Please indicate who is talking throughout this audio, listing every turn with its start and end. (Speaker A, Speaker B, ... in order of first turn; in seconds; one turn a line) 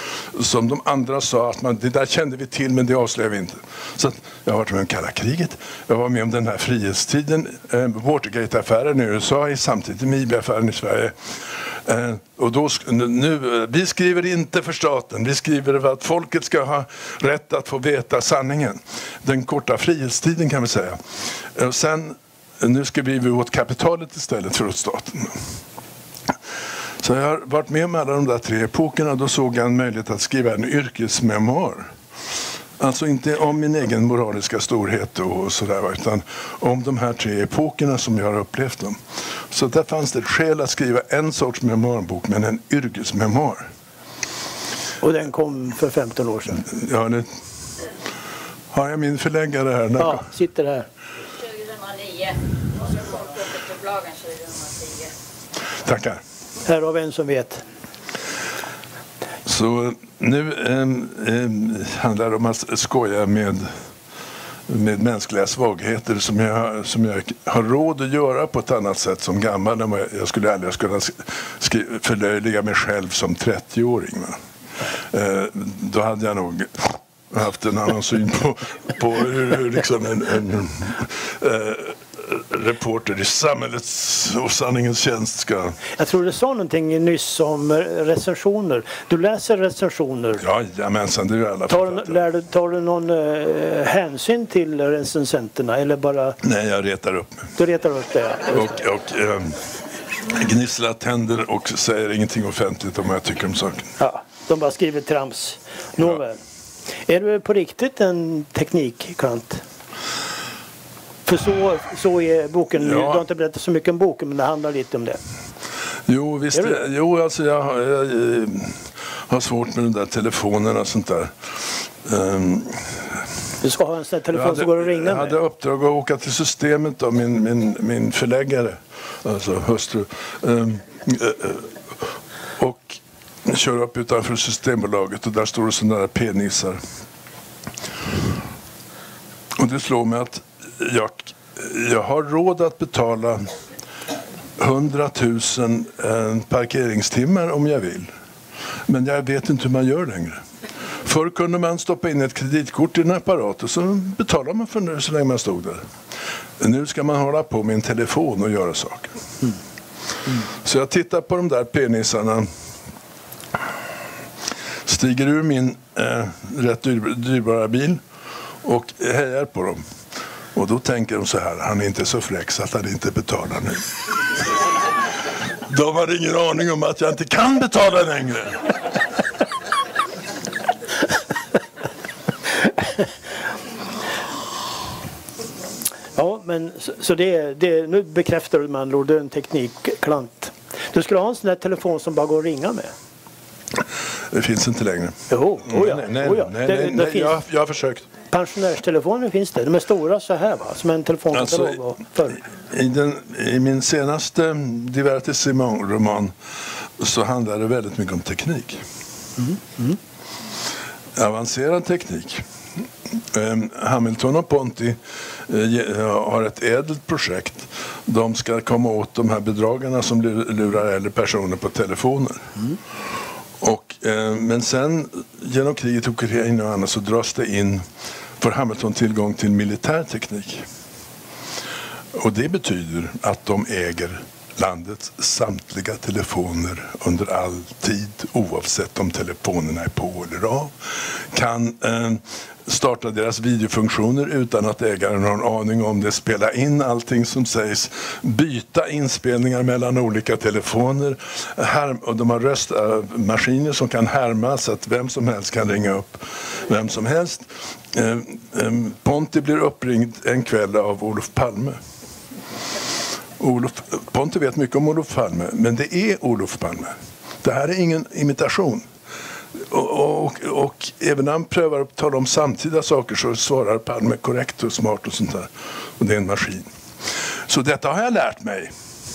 Speaker A: 0.3-21.0
Speaker A: 21.5-25.4
Speaker A: 27.0-31.9
Speaker A: 32.8-39.0
Speaker A: 39.5-43.7
Speaker B: 45.0-46.7
Speaker A: 46.7-47.3
Speaker A: 48.7-50.3
Speaker B: 50.0-50.9
Speaker C: 51.4-55.1
Speaker A: 55.8-56.2
Speaker B: 56.7-57.6
Speaker A: 59.5-63.7
Speaker A: 64.7-74.4
Speaker A: 75.1-85.8
Speaker B: 86.0-90.4
Speaker A: 90.4-92.2
Speaker B: 91.7-96.4
Speaker A: 96.4-97.5
Speaker B: 97.6-98.8
Speaker A: 98.5-99.6
Speaker A: 100.3-103.9
Speaker B: 104.0-106.4
Speaker B: 107.0-109.6
Speaker B: 111.3-115.2
Speaker A: 112.8-113.2
Speaker A: 116.1-121.3
Speaker A: 122.0-123.2
Speaker B: 123.6-125.4
Speaker A: 124.3-131.7
Speaker A: 132.6-136.8
Speaker A: 139.6-143.5
Speaker A: 144.6-148.1
Speaker A: 148.9-150.4
Speaker A: 151.0-155.8
Speaker A: 156.6-159.2
Speaker A: 160.6-162.5
Speaker A: 164.9-168.0
Speaker A: 168.6-169.8
Speaker A: 170.6-173.9
Speaker A: 175.7-178.7
Speaker B: 186.2-192.9
Speaker A: 194.3-198.1
Speaker B: 195.3-197.4
Speaker B: 198.3-202.4
Speaker A: 201.3-201.8
Speaker A: 202.4-206.3
Speaker A: 207.0-208.8
Speaker B: 209.4-210.0
Speaker A: 211.2-212.4
Speaker A: 213.2-222.6
Speaker A: 223.6-227.8
Speaker A: 228.4-230.7
Speaker A: 232.1-261.8
Speaker A: 263.4-268.9
Speaker A: 269.6-276.7
Speaker A: 277.5-278.7